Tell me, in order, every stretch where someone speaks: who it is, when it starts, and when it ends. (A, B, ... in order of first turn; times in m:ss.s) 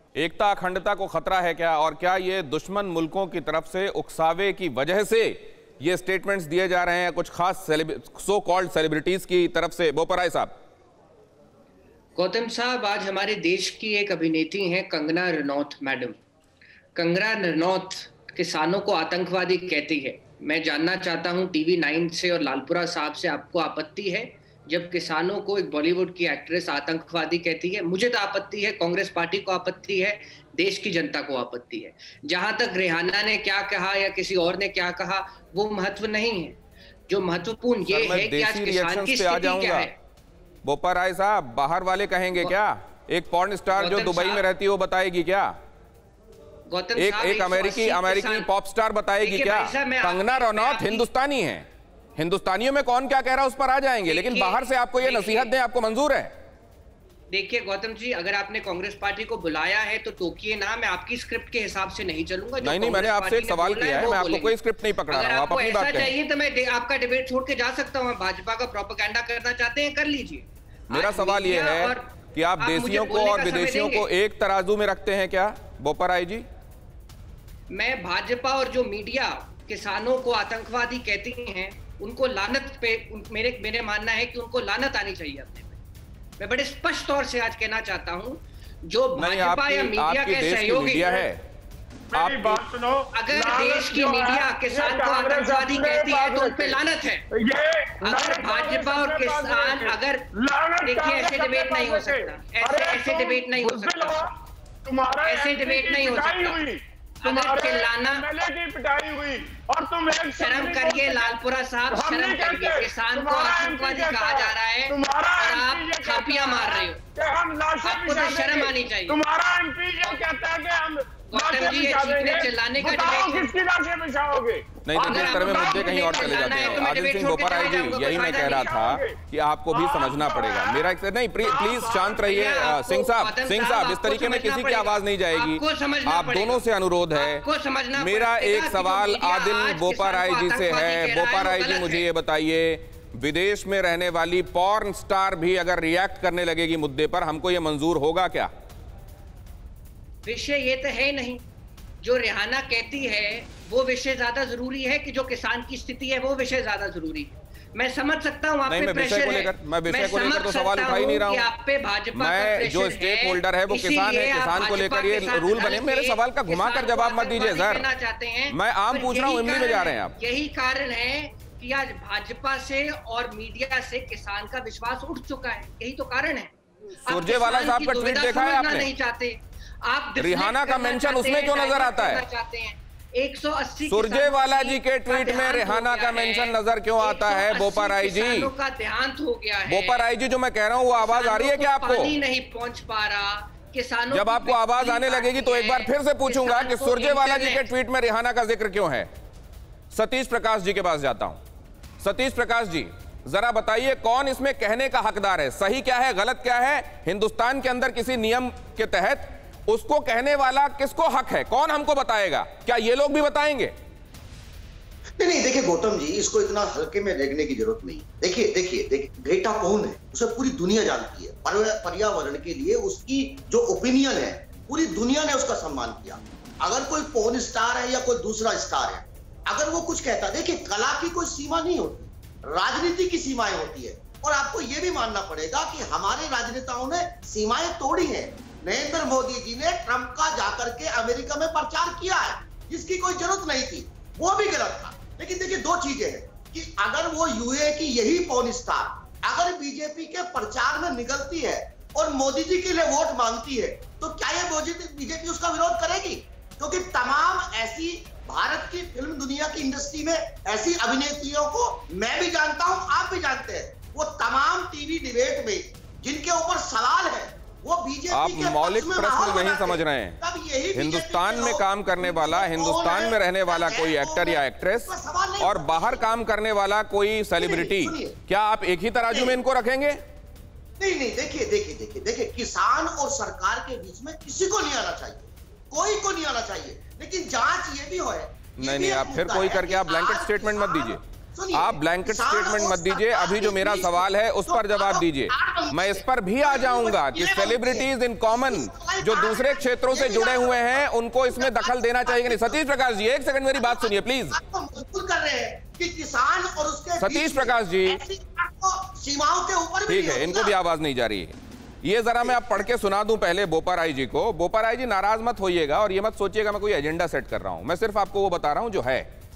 0:00.2-0:10.5 A
0:12.2-0:16.2 B
0:17.0-0:36.6 B
0:37.1-0:39.9 B
0:37.9-0:39.9 A
0:40.6-0:45.6 A
0:43.8-0:44.4 B
0:46.7-0:48.5 B
0:47.0-0:56.3 A
0:49.2-0:51.1 B
0:54.1-0:55.5 B
0:57.3-1:04.6 B
1:02.6-1:06.1 A
1:05.1-1:14.1 B
1:10.9-1:16.5 A
1:17.7-1:25.8 B
1:26.4-1:31.2 B
1:29.2-1:31.4 A
1:32.1-1:36.8 C
1:32.1-1:32.6 A
1:33.1-1:37.2 B
1:37.3-1:51.3 C
1:38.0-1:40.3 B
1:40.8-1:44.2 B
1:45.2-1:46.6 B
1:47.2-1:48.2 B
1:50.4-1:57.0 B
1:51.9-2:06.9 C
1:57.8-1:59.2 B
2:01.3-2:03.5 B
2:04.9-2:17.4 A
2:05.0-2:08.8 B
2:08.2-2:09.2 C
2:09.7-2:10.9 C
2:11.4-2:12.2 C
2:12.2-2:16.6 B
2:17.1-2:22.1 B
2:18.0-2:28.5 A
2:30.2-2:31.4 B
2:32.0-2:56.5 B
2:38.7-2:41.5 A
2:42.1-2:47.9 A
2:48.5-2:50.1 A
2:57.1-2:58.9 A
2:57.1-3:10.1 B
3:00.2-3:02.2 A
3:03.9-3:08.5 A
3:09.7-3:12.1 A
3:10.9-3:17.6 B
3:14.1-3:19.1 A
3:19.9-3:21.4 A
3:22.0-3:33.7 A
3:35.2-4:36.1 D
4:28.1-4:30.2 A
4:30.7-4:40.0 A
4:37.4-4:38.1 D
4:39.1-4:39.4 D
4:40.8-5:02.6 D
4:48.6-4:51.0 A
4:51.5-5:04.4 A
5:03.6-5:10.6 D
5:07.0-5:08.0 A
5:09.9-5:19.1 A
5:12.2-5:12.6 D